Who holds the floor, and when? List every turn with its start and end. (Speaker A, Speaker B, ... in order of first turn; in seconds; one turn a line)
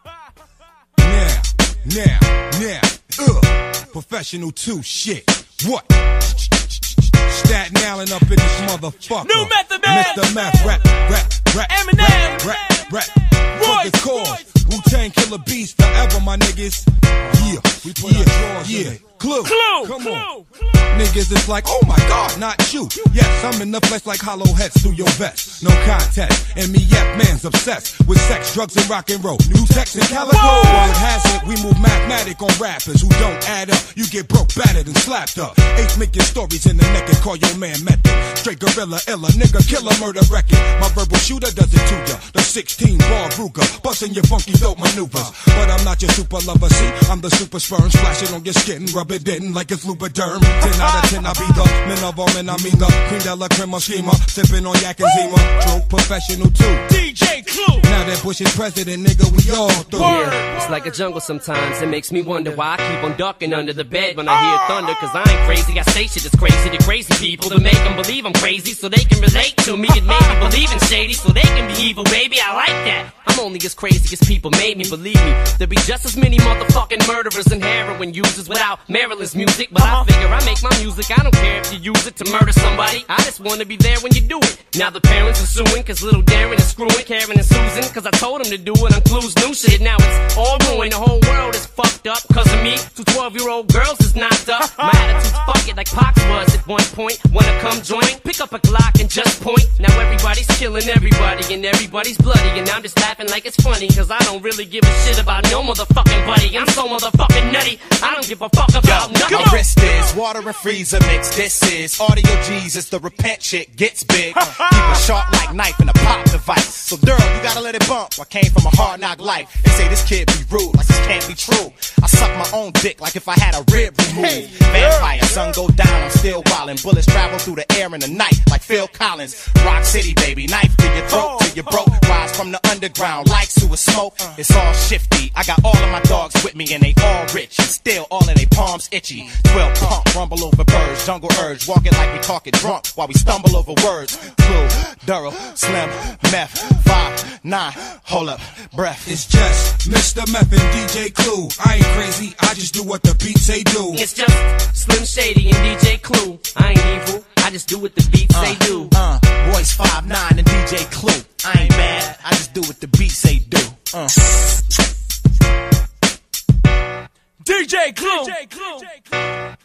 Speaker A: 1.0-20.3
Speaker B: 9.2-10.8
Speaker B: 11.7-14.5
Speaker C: 17.3-17.6
Speaker B: 19.4-20.4
Speaker A: 20.9-56.9
Speaker B: 30.5-30.8
Speaker B: 56.9-57.9
Speaker A: 57.8-60.3
Speaker B: 59.9-60.9
Speaker D: 60.0-109.6
Speaker C: 108.8-149.3
Speaker B: 109.2-110.1
Speaker B: 114.4-115.0
Speaker A: 149.1-154.0
Speaker D: 153.9-158.9
Speaker C: 158.3-164.3
Speaker B: 167.4-169.3